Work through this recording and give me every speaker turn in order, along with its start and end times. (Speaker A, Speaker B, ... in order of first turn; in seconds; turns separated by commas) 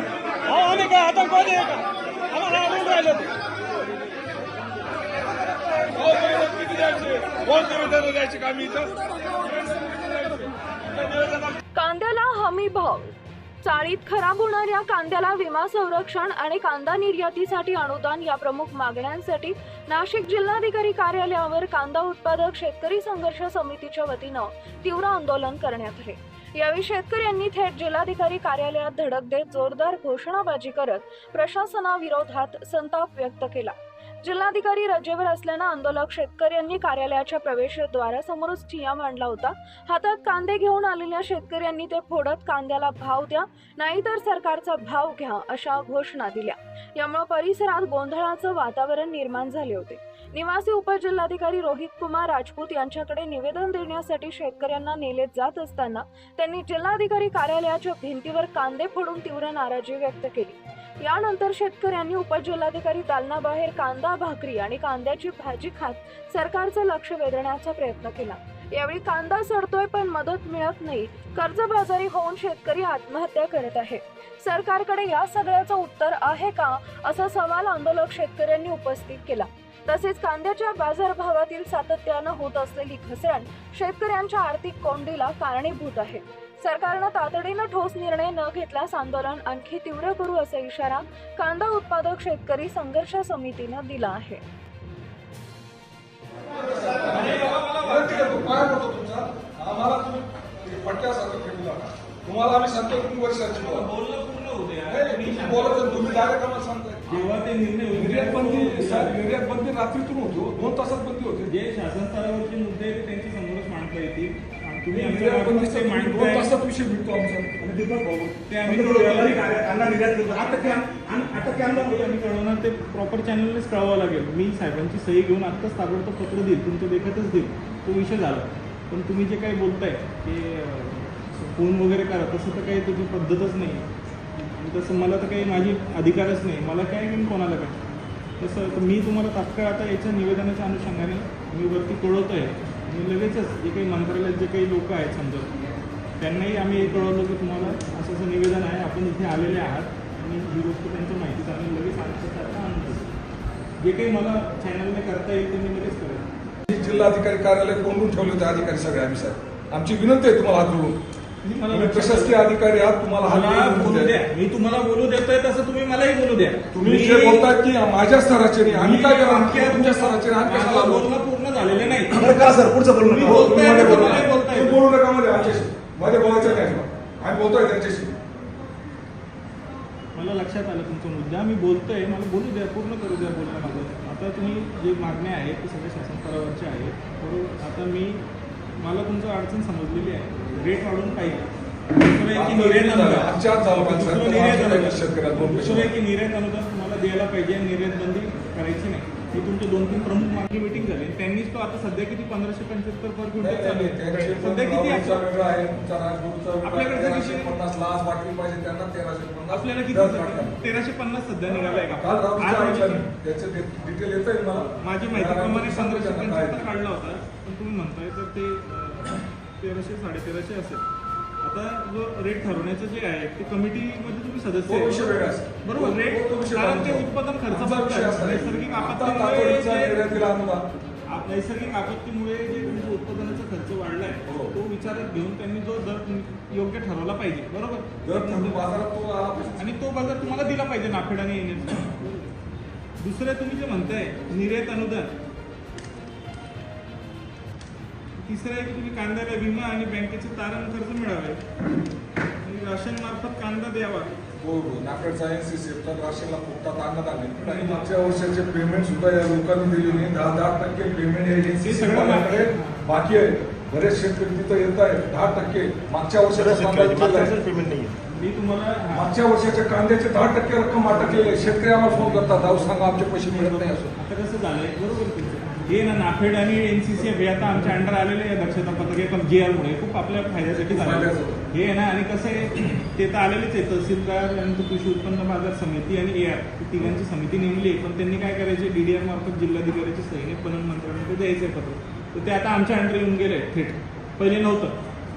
Speaker A: 0.5-1.8, Speaker B: 0.6-1.4, Speaker A: 2.4-2.8, Speaker B: 2.7-3.1, Speaker A: 5.9-10.4, Speaker A: 11.0-11.3, Speaker C: 11.7-94.4, Speaker A: 96.5-103.9, Speaker B: 97.0-98.6, Speaker B: 103.5-106.2, Speaker A: 104.9-107.2, Speaker B: 107.1-109.2, Speaker A: 107.9-111.5, Speaker B: 111.5-116.5, Speaker A: 114.9-117.6, Speaker D: 117.6-121.0, Speaker B: 118.5-133.8, Speaker B: 134.5-137.8, Speaker B: 138.4-145.5, Speaker B: 146.2-153.1, Speaker B: 153.8-156.3, Speaker A: 156.7-161.0, Speaker B: 161.4-162.4, Speaker A: 161.7-164.2, Speaker B: 163.2-167.5, Speaker A: 166.7-171.1, Speaker B: 168.6-172.5, Speaker D: 172.1-174.3, Speaker B: 173.0-174.8, Speaker A: 173.2-178.1, Speaker B: 180.1-188.2, Speaker B: 188.8-205.3, Speaker A: 192.3-195.9, Speaker A: 203.4-210.6, Speaker B: 206.6-207.6, Speaker B: 209.5-213.1, Speaker A: 211.5-216.7, Speaker B: 214.7-220.8, Speaker B: 221.4-230.0, Speaker A: 224.7-230.7, Speaker B: 231.1-238.7, Speaker A: 234.3-234.5, Speaker A: 238.0-239.7, Speaker B: 239.6-242.1, Speaker B: 243.0-245.1, Speaker B: 248.2-251.4, Speaker B: 252.4-254.1, Speaker A: 254.4-267.4, Speaker B: 257.4-257.9, Speaker B: 261.6-262.8, Speaker D: 266.3-267.9, Speaker B: 268.1-269.1, Speaker A: 268.9-273.9, Speaker B: 270.9-294.8, Speaker A: 280.6-281.4